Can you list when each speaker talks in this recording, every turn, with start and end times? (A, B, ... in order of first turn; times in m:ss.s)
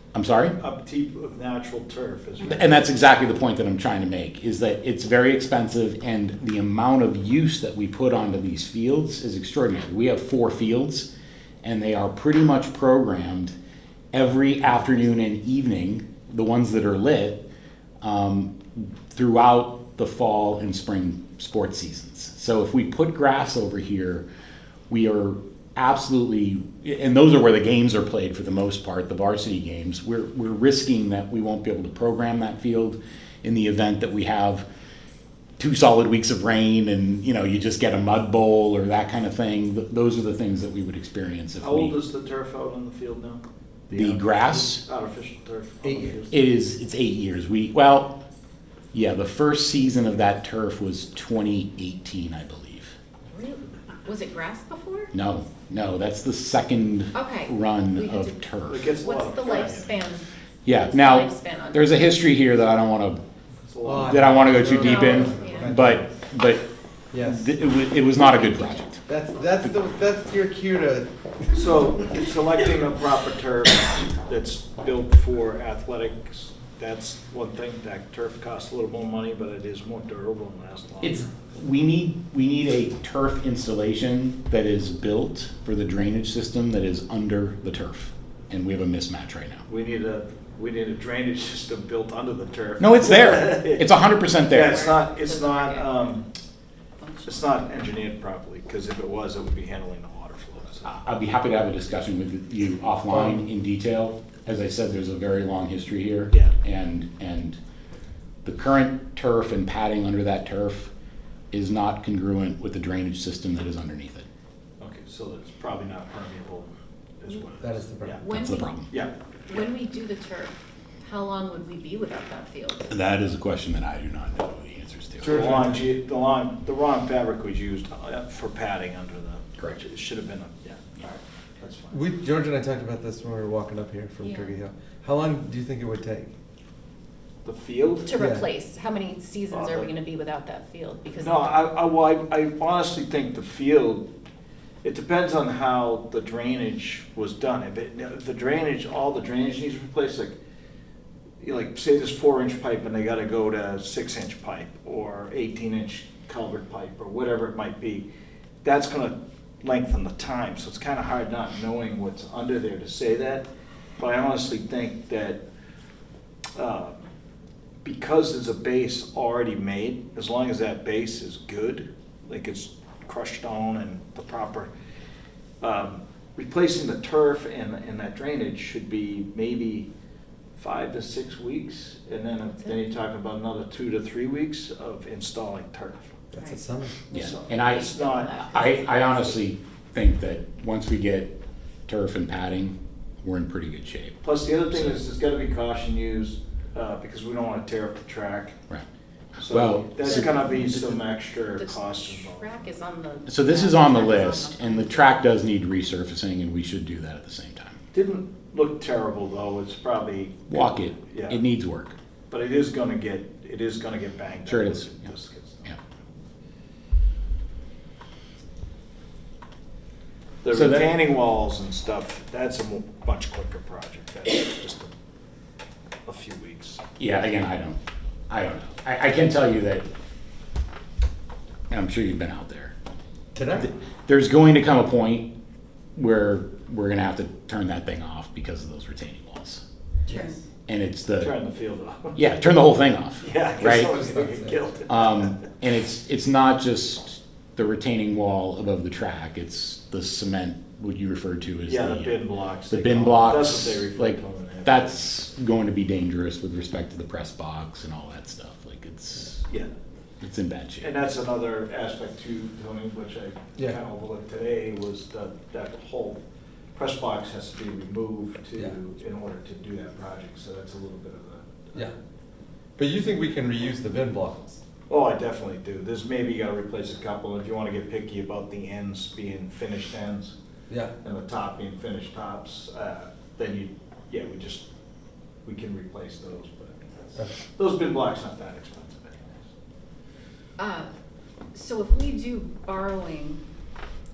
0:00.1-0:00.6 A
0:00.6-0:03.0 B
0:02.4-0:11.1 A
0:11.6-0:13.6 A
0:14.1-0:17.4 A
0:18.0-0:24.2 A
0:24.9-0:34.7 A
0:35.6-0:42.0 A
0:41.6-0:46.4 B
0:43.9-0:44.8 A
0:45.8-0:46.2 C
0:46.3-0:48.2 A
0:48.9-0:53.0 A
0:53.3-0:55.1 D
0:55.1-0:58.9 A
0:57.1-0:58.4 D
0:58.7-1:00.2 B
0:58.9-1:02.2 D
1:00.6-1:03.2 A
1:03.7-1:05.2 B
1:03.8-1:06.1 C
1:04.0-1:06.6 A
1:04.7-1:05.9 D
1:07.1-1:07.5 C
1:07.2-1:09.0 A
1:09.1-1:11.1 C
1:11.5-1:21.2 B
1:21.0-1:29.6 A
1:29.7-1:33.9 B
1:32.8-1:34.9 A
1:34.5-1:36.3 B
1:34.5-1:36.1 D
1:37.0-1:37.4 D
1:37.3-1:40.9 B
1:40.8-1:47.6 A
1:43.1-1:43.4 C
1:48.4-1:50.9 A
1:51.5-1:54.3 A
1:54.8-1:56.7 B
1:57.2-1:58.2 B
1:57.6-1:58.3 C
1:58.2-1:58.8 D
1:58.3-1:58.9 A
1:58.9-1:59.6 B
1:59.5-2:02.9 D
2:02.9-2:05.6 A
2:05.2-2:05.8 C
2:05.2-2:12.0 B
2:11.9-2:16.3 C
2:14.2-2:14.6 D
2:17.4-2:18.1 B
2:18.1-2:21.5 D
2:18.2-2:18.5 C
2:19.5-2:19.9 B
2:21.1-2:24.1 B
2:24.8-2:30.4 B
2:31.4-2:38.1 B
2:38.6-2:43.5 B
2:44.0-2:45.4 B
2:46.6-2:47.0 B
2:47.8-2:54.7 B
2:55.6-2:59.9 B
3:00.6-3:06.2 B
3:06.3-3:07.0 C
3:06.3-3:09.1 D
3:07.1-3:11.4 A
3:07.1-3:08.4 B
3:11.9-3:14.2 A
3:14.2-3:18.6 B
3:14.7-3:15.0 A
3:19.4-3:22.6 B
3:19.5-3:20.8 A
3:20.1-3:20.5 D
3:21.5-3:25.2 D
3:23.3-3:27.8 A
3:27.9-3:31.4 B
3:30.5-3:32.0 A
3:32.3-3:35.8 B
3:34.5-3:35.1 A
3:40.4-3:44.9 B
3:40.5-3:40.9 A
3:46.1-3:46.8 B
3:47.0-3:47.8 A
3:48.3-3:49.9 A
3:51.7-3:52.8 A
3:53.3-3:53.7 C
3:53.6-3:55.3 A
3:56.0-3:59.6 A
4:00.1-4:00.4 C
4:00.1-4:00.4 D
4:00.7-4:01.4 A
4:01.2-4:02.2 B
4:02.2-4:04.0 A
4:03.2-4:05.4 B
4:04.0-4:04.5 C
4:04.9-4:19.4 A
4:11.7-4:15.1 B
4:20.2-4:20.9 A
4:20.8-4:26.2 B
4:26.8-4:31.9 B
4:32.8-4:34.6 C
4:34.9-4:40.4 B
4:41.0-4:44.7 B
4:45.4-4:49.4 B
4:50.6-4:50.9 D
4:51.5-4:53.4 D